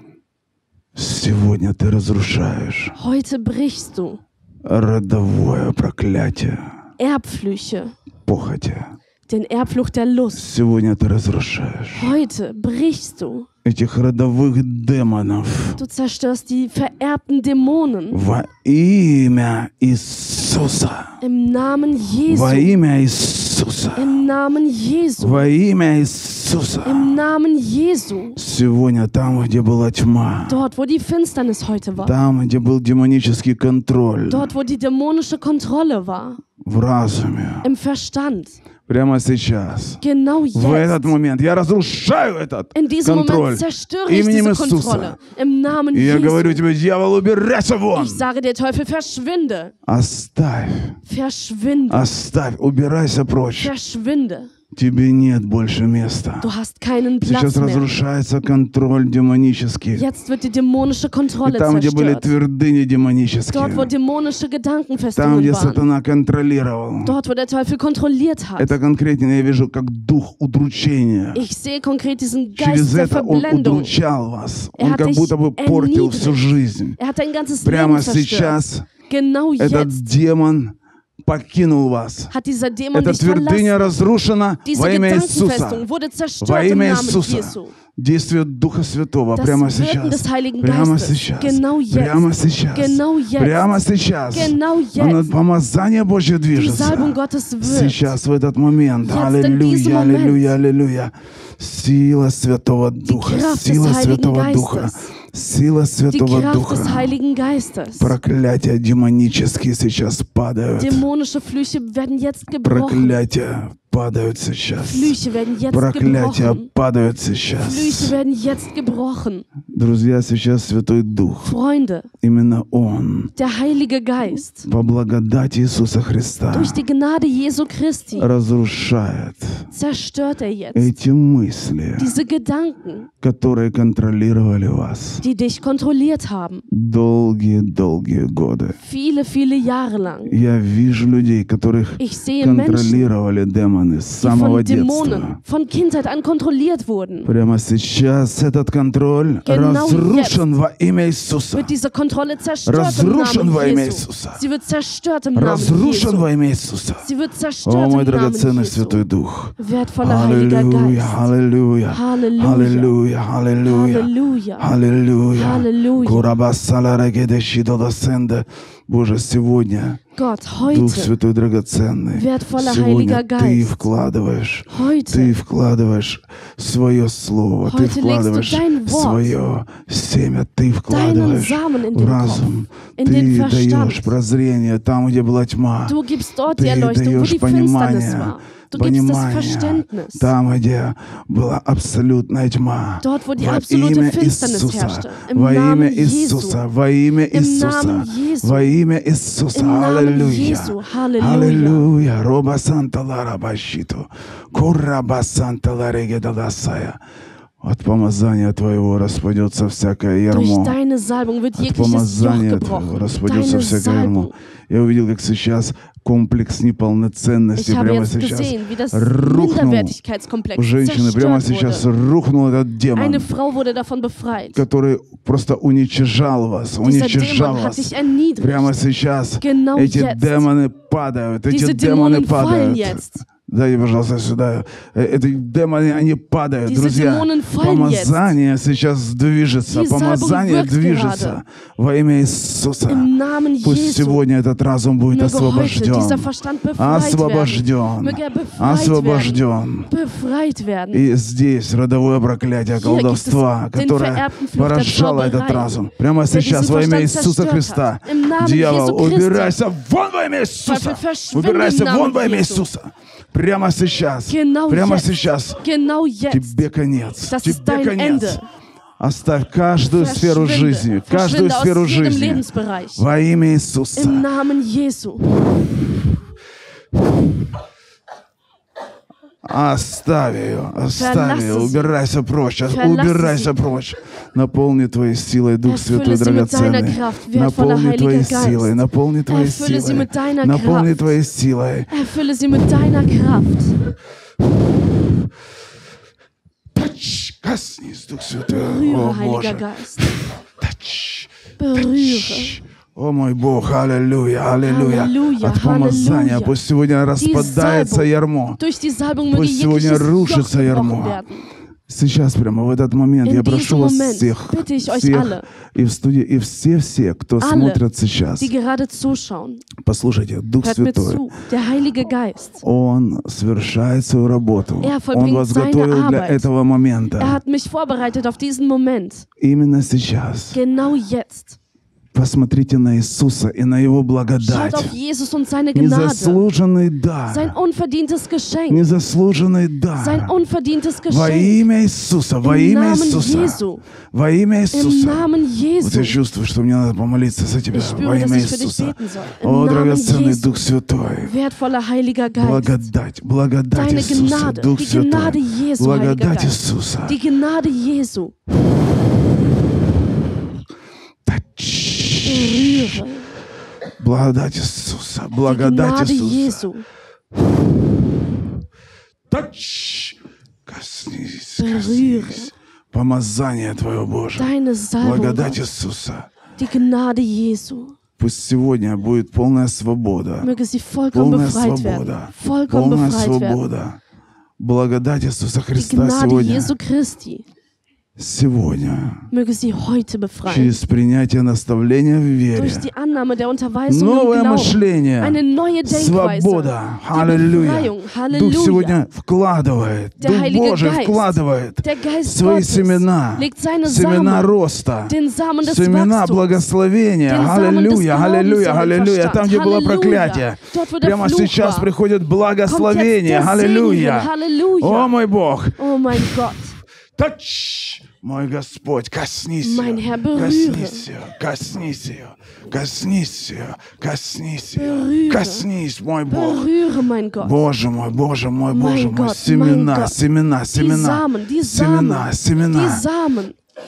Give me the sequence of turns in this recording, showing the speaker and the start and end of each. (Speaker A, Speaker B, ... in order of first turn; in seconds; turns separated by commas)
Speaker A: 0.9-2.9, Speaker B: 3.0-4.2, Speaker A: 4.6-6.6, Speaker B: 7.0-7.9, Speaker A: 8.2-8.9, Speaker B: 9.3-10.4, Speaker A: 10.3-12.1, Speaker B: 11.9-13.5, Speaker A: 13.6-15.8, Speaker B: 15.8-18.2, Speaker A: 18.1-21.1, Speaker B: 21.2-22.8, Speaker A: 22.3-24.1, Speaker B: 23.9-25.5, Speaker A: 25.2-27.2, Speaker B: 26.8-28.4, Speaker A: 28.4-30.6, Speaker B: 30.5-32.1, Speaker A: 32.0-34.5, Speaker B: 34.3-36.4, Speaker A: 36.6-37.7, Speaker B: 37.6-38.6, Speaker A: 38.9-40.0, Speaker B: 40.0-41.1, Speaker A: 40.5-45.2, Speaker B: 42.7-46.6, Speaker A: 45.9-48.2, Speaker B: 47.9-49.7, Speaker A: 49.9-51.0, Speaker B: 51.0-52.1, Speaker A: 51.9-53.7, Speaker B: 53.5-54.5, Speaker A: 54.7-56.5, Speaker B: 56.4-57.9, Speaker A: 57.2-60.0, Speaker B: 59.9-62.3, Speaker A: 61.4-63.9, Speaker B: 63.5-65.9, Speaker A: 65.1-67.1, Speaker B: 67.0-68.7, Speaker A: 68.6-71.4, Speaker B: 71.3-74.0, Speaker A: 72.5-77.0, Speaker B: 74.8-80.0, Speaker A: 77.6-78.9, Speaker A: 79.6-82.3, Speaker B: 82.3-83.8, Speaker A: 82.9-85.8, Speaker B: 84.7-87.7, Speaker A: 86.4-107.1, Speaker B: 89.3-95.3, Speaker B: 96.5-98.1, Speaker B: 99.0-100.5, Speaker B: 103.0-105.0, Speaker B: 106.1-108.1, Speaker A: 107.9-111.0, Speaker B: 110.8-113.2, Speaker A: 112.6-115.2, Speaker B: 114.8-116.7, Speaker A: 115.7-118.1, Speaker B: 117.6-119.5, Speaker A: 119.7-121.5, Speaker B: 121.4-122.1, Speaker A: 122.2-123.3, Speaker B: 123.3-124.7, Speaker A: 124.3-126.8, Speaker B: 126.5-128.3, Speaker A: 128.2-129.7, Speaker B: 129.7-130.9, Speaker A: 130.7-132.1, Speaker B: 132.0-133.1, Speaker A: 133.2-135.2, Speaker B: 135.2-136.6, Speaker A: 136.7-138.8, Speaker B: 138.8-140.4, Speaker A: 140.2-145.4, Speaker B: 142.0-143.1, Speaker B: 144.2-147.3, Speaker A: 147.2-151.7, Speaker B: 149.4-150.4, Speaker B: 151.5-156.3, Speaker A: 152.7-154.4, Speaker A: 155.3-157.1, Speaker B: 157.0-159.0, Speaker A: 157.6-170.0, Speaker B: 159.6-161.3, Speaker B: 161.9-162.9, Speaker B: 163.6-164.7, Speaker B: 165.3-166.3, Speaker B: 170.2-171.2, Speaker A: 170.6-185.9, Speaker B: 172.1-173.8, Speaker B: 174.7-175.3, Speaker B: 177.6-179.3, Speaker B: 180.9-184.1, Speaker B: 185.9-190.3, Speaker A: 186.5-207.0, Speaker B: 193.0-196.6, Speaker B: 197.3-198.7, Speaker B: 199.5-201.8, Speaker A: 207.6-210.8, Speaker B: 210.3-214.3, Speaker A: 211.6-219.9, Speaker B: 217.6-221.9, Speaker A: 220.5-223.3, Speaker B: 222.9-224.6, Speaker A: 224.5-243.1, Speaker B: 226.8-228.8, Speaker B: 229.4-230.5, Speaker B: 231.5-233.2, Speaker B: 236.6-238.3, Speaker B: 239.7-241.4, Speaker B: 242.9-244.2, Speaker A: 243.6-249.9, Speaker B: 245.1-251.1, Speaker A: 250.9-265.6, Speaker B: 252.7-259.6, Speaker B: 260.6-262.7, Speaker B: 264.3-266.6, Speaker A: 266.3-268.4, Speaker B: 267.3-268.5, Speaker A: 269.0-274.3, Speaker B: 269.9-273.0, Speaker B: 273.9-275.3, Speaker A: 279.4-291.9, Speaker B: 280.9-281.9, Speaker B: 282.6-283.5, Speaker B: 285.6-291.1, Speaker B: 291.9-293.8, Speaker A: 296.7-308.6, Speaker B: 298.5-300.0, Speaker B: 301.6-302.6, Speaker B: 304.6-306.5, Speaker B: 307.2-311.5, Speaker A: 309.3-311.2, Speaker A: 311.9-318.5, Speaker B: 313.2-315.4, Speaker B: 317.4-317.8, Speaker B: 318.4-319.6, Speaker A: 319.8-321.3, Speaker B: 320.6-322.6, Speaker A: 322.6-327.4, Speaker B: 324.8-326.5, Speaker B: 327.2-329.2, Speaker A: 329.4-330.6, Speaker B: 330.5-331.6, Speaker A: 332.1-334.9, Speaker B: 334.4-336.4, Speaker A: 335.7-337.6, Speaker B: 337.3-338.8, Speaker A: 338.7-340.3, Speaker B: 339.9-341.6, Speaker A: 341.1-343.6, Speaker B: 342.4-343.8, Speaker A: 344.1-351.3, Speaker B: 344.7-346.2, Speaker B: 347.7-350.6, Speaker B: 351.2-352.9, Speaker A: 352.4-357.2, Speaker B: 353.7-358.3, Speaker A: 361.2-363.0, Speaker B: 362.2-363.3, Speaker A: 364.0-366.7, Speaker B: 365.4-366.9, Speaker A: 369.3-376.3, Speaker B: 371.6-372.5, Speaker B: 374.4-375.6, Speaker B: 376.6-377.9, Speaker A: 378.2-380.5, Speaker B: 380.4-383.6, Speaker A: 381.1-384.0, Speaker A: 384.6-386.7, Speaker B: 385.7-387.4, Speaker A: 388.2-389.3, Speaker B: 389.3-390.7, Speaker A: 390.4-392.9, Speaker B: 392.5-399.0, Speaker A: 393.9-416.6, Speaker B: 400.2-404.5, Speaker B: 405.1-406.6, Speaker B: 407.3-411.9, Speaker B: 412.6-415.1, Speaker B: 415.8-416.7, Speaker A: 417.1-426.7, Speaker B: 419.6-421.1, Speaker B: 424.7-425.7, Speaker B: 426.3-427.6, Speaker A: 427.4-433.0, Speaker B: 428.7-430.2, Speaker B: 430.7-433.6